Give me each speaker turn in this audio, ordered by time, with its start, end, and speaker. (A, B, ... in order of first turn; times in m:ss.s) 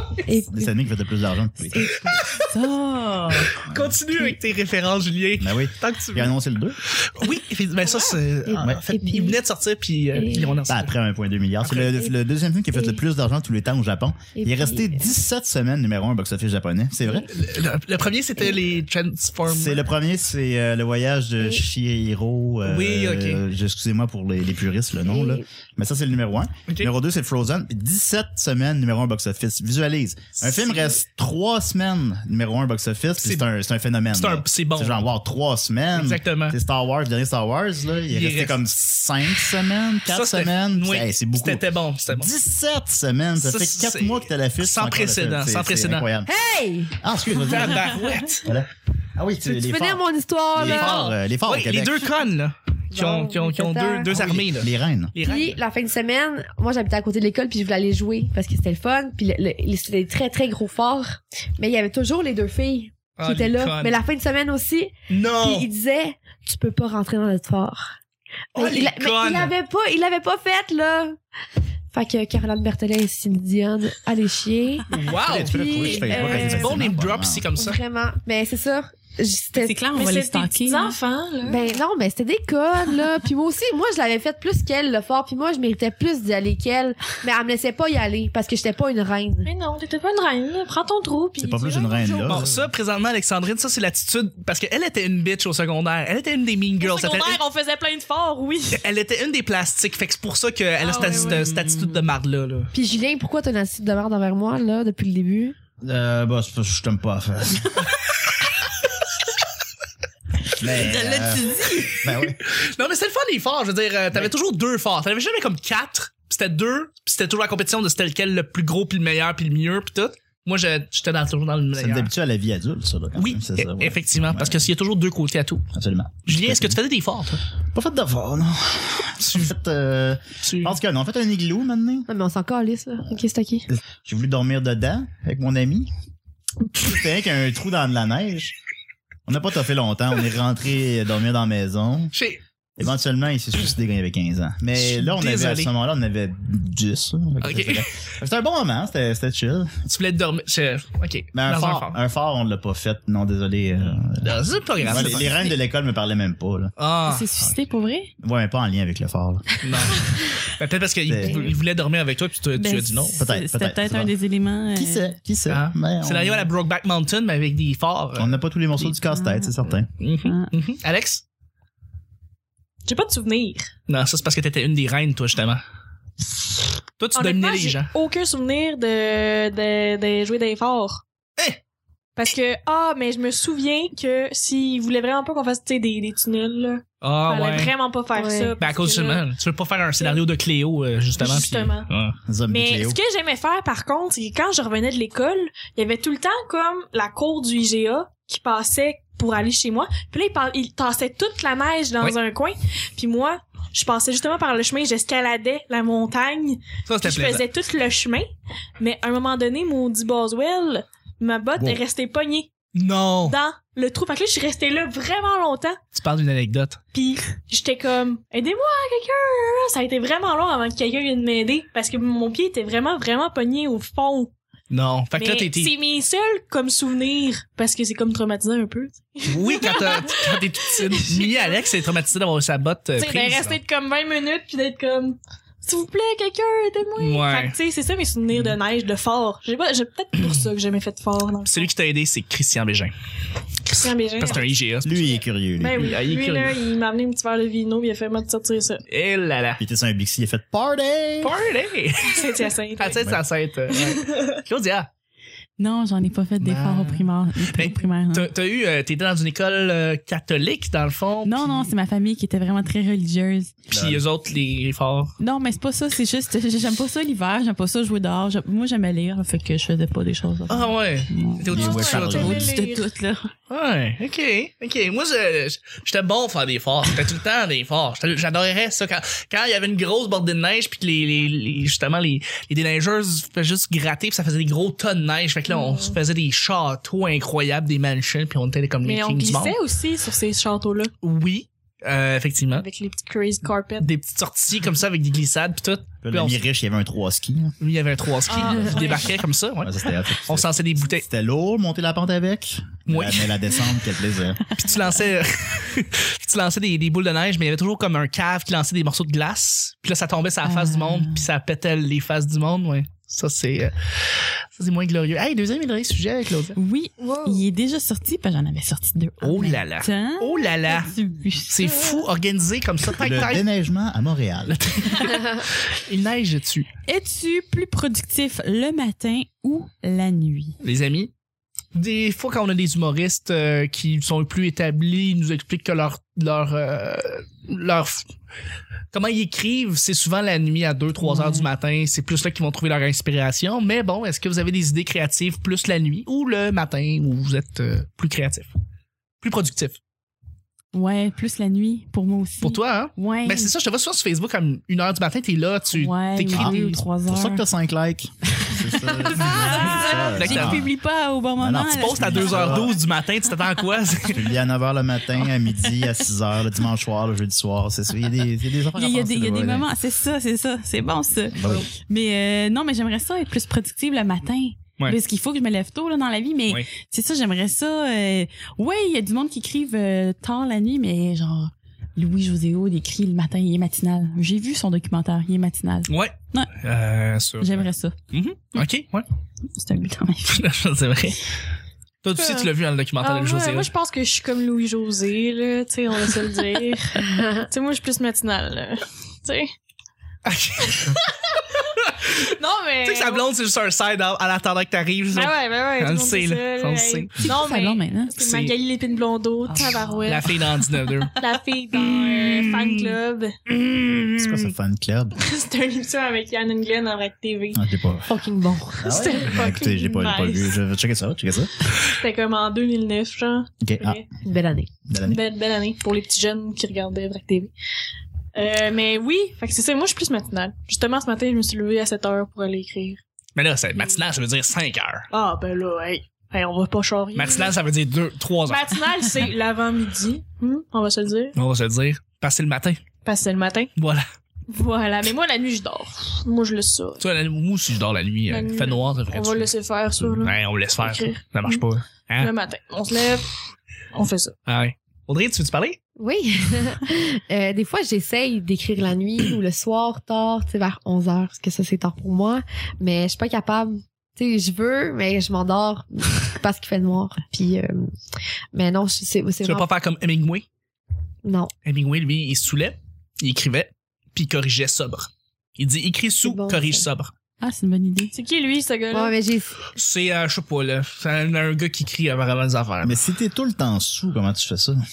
0:00.2-0:00.7 A
0:00.5-0:02.1 B
0:01.7-0:02.3 A
0:02.1-0:02.5 C
0:02.5-0:03.6 D
0:03.5-0:06.3 C
0:03.6-0:03.9 B
0:05.4-0:06.8 B
0:06.9-0:10.9 C
0:08.4-0:09.4 A
0:10.1-0:10.6 A
0:10.7-0:17.3 B
0:11.6-0:12.0 C
0:12.7-0:13.0 A
0:14.3-0:15.1 A
0:17.2-0:19.8 C
0:19.4-0:46.3 B
0:22.6-0:23.4 C
0:25.0-0:25.4 A
0:30.4-0:31.0 C
0:33.2-0:33.5 C
0:34.1-0:35.1 C
0:35.9-0:36.6 C
0:38.1-0:38.6 C
0:40.1-0:42.3 C
0:43.4-0:46.1 C
0:46.2-0:47.0 A
0:47.0-0:50.0 B
0:47.3-0:48.5 C
0:49.4-0:51.1 A
0:50.5-0:52.1 B
0:50.6-0:55.6 C
0:52.9-0:54.2 A
0:54.1-0:55.1 B
0:55.2-1:08.0 A
1:03.2-1:04.0 C
1:05.1-1:05.7 C
1:08.5-1:11.2 A
1:08.5-1:09.5 C
1:11.9-1:16.9 A
1:14.9-1:17.8 C
1:15.2-1:17.4 B
1:17.6-1:19.8 A
1:19.6-1:21.0 D
1:19.9-1:21.7 E
1:21.4-1:29.5 A
1:29.4-1:32.4 E
1:31.4-1:32.7 B
1:32.2-1:37.4 C
1:36.8-1:38.8 E
1:38.7-1:42.7 C
1:40.8-1:41.5 E
1:41.0-1:42.0 D
1:42.7-1:45.6 A
1:45.8-1:47.8 B
1:50.6-1:52.4 B
1:50.7-2:02.1 C
1:50.8-1:52.0 D
2:01.7-2:04.7 B
2:03.2-2:05.7 C
2:05.7-2:06.8 B
2:06.2-2:07.4 C
2:07.7-2:12.1 B
2:09.2-2:09.5 C
2:10.4-2:10.8 C
2:12.1-2:13.7 A
2:13.7-2:15.9 B
2:16.7-2:18.5 B
2:19.3-2:22.1 B
2:22.1-2:22.4 C
2:22.8-2:29.7 B
2:24.7-2:25.7 C
2:27.4-2:28.0 C
2:29.8-2:32.0 C
2:31.3-2:36.7 B
2:34.1-2:35.5 C
2:36.8-2:37.5 C
2:37.0-2:38.1 D
2:38.2-2:39.5 B
2:39.6-2:43.2 C
2:41.0-2:41.5 B
2:42.5-2:45.1 D
2:43.2-2:44.1 B
2:44.7-2:46.5 B
2:45.5-2:48.4 C
2:48.2-2:49.9 B
2:49.0-2:49.6 D
2:50.0-2:51.2 C
2:50.2-2:50.5 D
2:52.8-2:53.7 E
2:53.9-2:55.6 C
2:57.0-2:57.9 C
2:57.1-3:01.0 E
3:02.2-3:09.2 E
3:07.0-3:07.7 C
3:08.1-3:08.5 A
3:08.6-3:12.2 C
3:11.2-3:11.9 E
3:12.3-3:13.0 B
3:12.5-3:28.3 E
3:26.8-3:27.4 C
3:28.8-3:32.5 E
3:31.6-3:31.8 B
3:32.7-3:33.4 C
3:33.2-3:35.8 E
3:35.9-3:36.8 C
3:36.9-3:44.3 E
3:44.7-3:45.7 C
3:45.2-3:51.6 E
3:49.2-3:53.6 C
3:53.0-4:01.7 E
3:57.0-3:57.6 C
4:01.4-4:02.9 C
4:03.7-4:05.2 C
4:03.7-4:04.5 E
4:04.8-4:05.8 B
4:05.6-4:08.8 E
4:05.7-4:06.5 C
4:08.9-4:09.6 C
4:09.6-4:11.3 B
4:11.2-4:14.9 C
4:12.0-4:13.1 E
4:13.7-4:14.3 E
4:15.6-4:18.3 D
4:16.4-4:21.7 C
4:21.2-4:23.6 D
4:23.7-4:24.0 B
4:23.7-4:25.1 C
4:25.2-4:33.3 D
4:30.5-4:32.5 C
4:31.5-4:32.5 B
4:31.5-4:32.9 E
4:33.5-4:49.6 C
4:45.5-4:46.0 E
4:48.8-4:50.9 E
4:51.0-4:52.6 C
4:52.6-4:53.9 E
4:53.8-4:56.4 C
4:56.0-4:57.5 B
4:57.6-5:01.0 C
4:58.3-4:59.2 E
4:59.6-5:04.4 B
5:02.9-5:03.4 C
5:04.5-5:16.6 C
5:10.4-5:11.3 D
5:16.6-5:22.0 D
5:19.2-5:20.9 C
5:21.5-5:23.4 C
5:23.0-5:24.6 B
5:24.5-5:26.7 C
5:26.8-5:30.6 D
5:30.6-5:31.1 C
5:31.7-5:38.1 C
5:38.9-5:48.5 C
5:41.0-5:41.5 D
5:49.2-5:49.8 C
5:50.7-5:53.5 D
5:52.4-5:56.8 C
5:55.7-5:57.4 D
5:56.3-6:00.7 B
5:59.0-6:00.1 A
5:59.1-6:02.7 D
5:59.6-6:00.7 C
6:01.4-6:02.7 B
6:01.7-6:04.2 C
6:04.1-6:09.7 B
6:08.7-6:26.6 D
6:11.4-6:11.7 B
6:25.8-6:29.0 C
6:27.4-6:27.9 D
6:29.6-6:30.4 D
6:30.2-6:31.3 C
6:32.0-6:33.7 C
6:32.2-6:39.5 E
6:37.1-6:37.4 A
6:40.2-6:42.3 C
6:42.2-6:43.2 E
6:42.8-6:47.2 C
6:45.1-6:50.4 E
6:47.2-6:48.4 D
6:47.3-6:47.7 A
6:48.2-6:48.5 C
6:49.5-6:50.4 D
6:50.0-6:51.2 C
6:51.1-6:53.4 E
6:51.7-6:52.9 C
6:53.5-6:54.5 C
6:54.2-6:55.2 B
6:55.2-6:57.6 E
6:57.5-6:58.1 B
6:58.1-6:59.0 A
6:58.8-7:01.7 B
6:58.8-7:00.6 E
7:01.8-7:04.0 E
7:03.6-7:04.0 B
7:04.2-7:04.7 A
7:04.9-7:05.2 B
7:05.0-7:07.5 E
7:08.3-7:13.0 E
7:13.4-7:15.1 C
7:15.1-7:17.6 E
7:17.1-7:18.8 C
7:18.5-7:21.3 E
7:21.3-7:22.8 C
7:23.0-7:23.7 E
7:23.8-7:24.0 C
7:24.5-7:27.0 E
7:27.0-7:32.3 C
7:28.3-7:31.6 E
7:32.2-7:33.3 E
7:33.9-7:34.4 E
7:34.5-7:35.8 C
7:36.0-7:47.9 A
7:48.5-7:49.7 A
7:49.4-7:50.5 C
7:51.2-7:51.5 A
7:51.6-7:57.1 C
7:56.2-7:56.9 A
7:57.4-7:58.1 D
7:58.1-7:59.2 E
7:58.9-7:59.6 A
7:59.7-8:03.0 C
8:02.8-8:04.8 B